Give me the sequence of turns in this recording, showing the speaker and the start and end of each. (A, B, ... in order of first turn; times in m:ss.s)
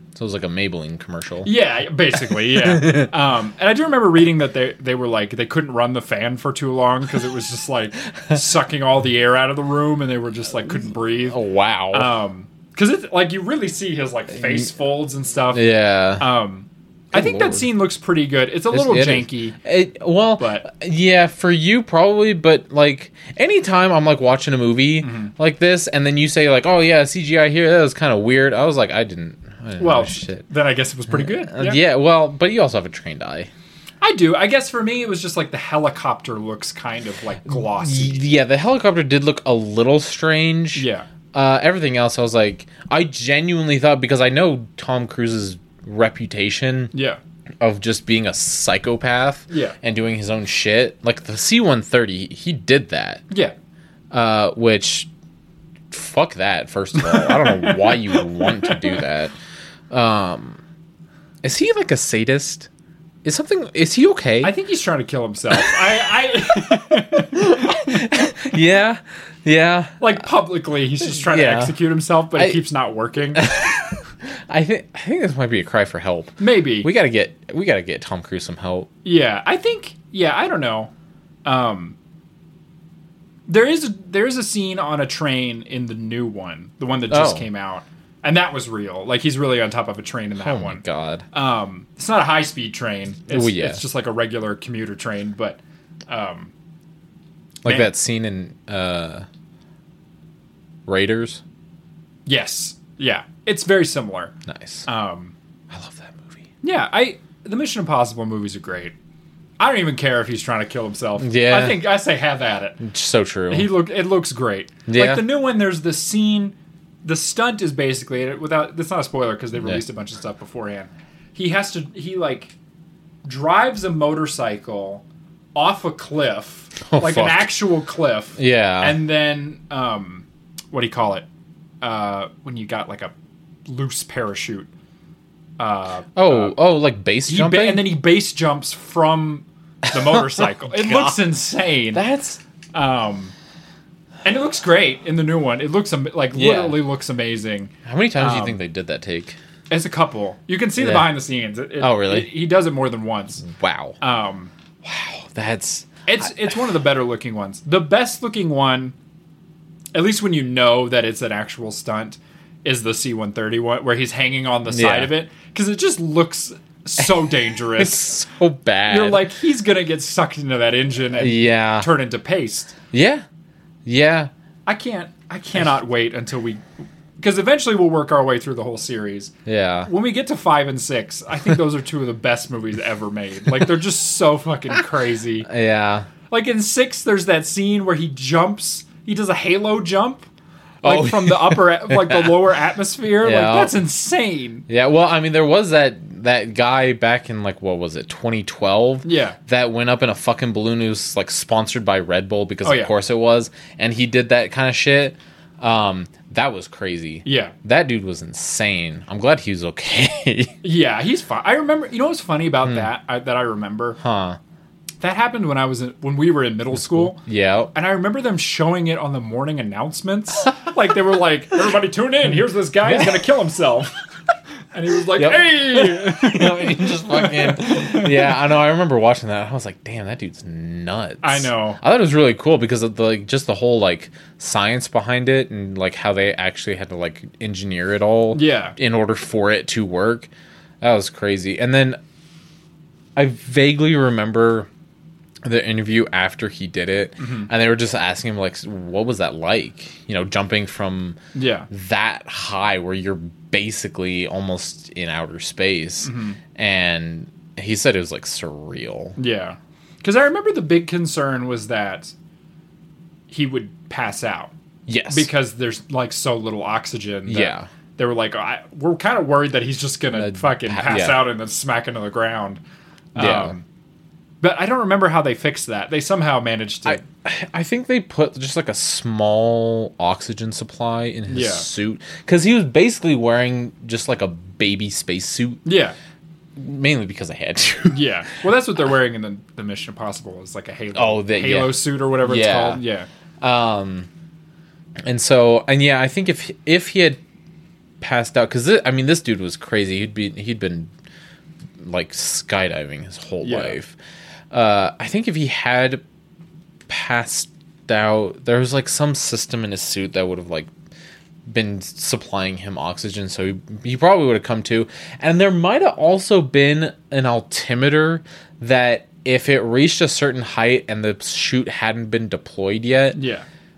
0:00.1-0:01.5 A
0:01.4-0:11.4 B
0:02.3-0:03.1 A
0:11.3-0:12.1 A
0:11.9-0:15.6 B
0:15.5-0:16.3 A
0:16.2-0:19.6 B
0:17.1-0:17.7 A
0:18.7-0:30.4 A
0:20.4-0:20.6 B
0:25.0-0:25.3 B
0:29.8-0:31.8 B
0:31.1-0:33.5 A
0:34.0-0:38.2 B
0:37.5-0:46.9 A
0:40.7-0:41.1 B
0:46.9-0:47.2 B
0:47.6-0:53.2 A
0:49.5-0:49.8 B
0:53.3-0:53.5 B
0:54.1-0:55.1 A
0:55.9-0:59.3 A
0:57.0-0:59.0 B
0:59.9-1:00.6 A
1:01.4-1:02.7 A
1:03.2-1:04.6 A
1:04.4-1:07.8 B
1:06.9-1:10.2 A
1:10.0-1:13.5 B
1:11.0-1:11.8 A
1:12.3-1:12.6 A
1:13.3-1:18.9 A
1:16.4-1:16.9 B
1:19.0-1:20.9 B
1:21.4-1:22.0 B
1:23.5-1:36.5 B
1:27.1-1:27.5 A
1:30.4-1:31.2 A
1:33.3-1:33.8 A
1:37.6-1:39.3 A
1:37.6-1:37.9 B
1:40.9-1:41.4 A
1:42.2-1:44.3 B
1:44.4-1:44.9 A
1:44.8-1:45.3 B
1:45.7-1:46.4 A
1:46.6-1:48.9 B
1:49.6-1:52.8 B
1:51.2-1:51.8 A
1:52.8-1:53.7 A
1:53.5-2:02.5 B
1:54.8-1:55.2 A
1:59.5-1:59.8 A
2:03.2-2:05.0 B
2:05.5-2:11.2 B
2:06.8-2:07.5 A
2:08.4-2:09.0 A
2:11.8-2:13.1 B
2:13.6-2:14.7 B
2:15.6-2:16.6 B
2:16.2-2:17.9 A
2:17.3-2:22.0 B
2:19.9-2:21.3 A
2:21.9-2:22.4 A
2:22.7-2:23.3 B
2:24.2-2:28.6 B
2:26.3-2:26.8 A
2:27.8-2:29.4 A
2:29.7-2:33.4 B
2:30.8-2:31.1 A
2:31.8-2:32.3 A
2:33.4-2:34.0 A
2:34.0-2:34.5 B
2:34.8-2:36.5 A
2:36.1-2:38.9 B
2:39.9-2:48.1 B
2:44.7-2:45.1 A
2:47.0-2:49.3 A
2:48.9-2:52.7 B
2:51.2-2:51.9 A
2:52.9-2:53.2 A
2:53.8-2:54.3 A
2:54.6-2:56.6 B
2:57.2-2:59.3 B
2:59.4-2:59.9 A
2:59.8-3:05.5 B
3:05.4-3:06.1 A
3:06.3-3:10.3 B
3:10.8-3:12.4 A
3:10.8-3:14.6 B
3:13.2-3:13.8 A
3:14.7-3:30.5 A
3:19.0-3:19.4 B
3:22.6-3:22.9 B
3:27.2-3:27.5 B
3:30.6-3:34.0 B
3:34.0-3:34.4 A
3:35.0-3:37.2 B
3:36.7-3:37.7 A
3:37.7-3:43.9 B
3:42.8-3:43.2 A
3:44.7-3:48.3 B
3:45.2-4:00.3 A
3:51.2-3:51.8 B
3:58.3-3:58.8 B
4:00.8-4:02.0 A
4:03.2-4:04.7 A
4:05.4-4:11.2 A
4:07.2-4:07.5 B
4:11.3-4:11.7 B
4:11.7-4:19.2 A
4:16.0-4:16.4 B
4:19.2-4:22.1 B
4:23.3-4:24.5 B
4:24.9-4:25.3 A
4:25.1-4:32.6 B
4:27.3-4:27.7 A
4:30.1-4:31.2 A
4:33.1-4:33.6 B
4:33.2-4:33.5 A
4:34.4-4:37.0 B
4:36.8-4:45.6 A
4:41.3-4:41.7 B
4:45.6-4:46.0 B
4:46.6-4:48.1 A
4:47.9-4:53.1 B
4:50.9-4:52.8 A
4:53.4-4:54.1 A
4:55.0-4:57.2 A
4:58.0-5:00.9 A
5:01.8-5:04.0 A
5:03.4-5:03.8 B
5:04.5-5:06.0 A
5:06.9-5:10.7 A
5:11.4-5:23.2 A
5:23.1-5:23.4 B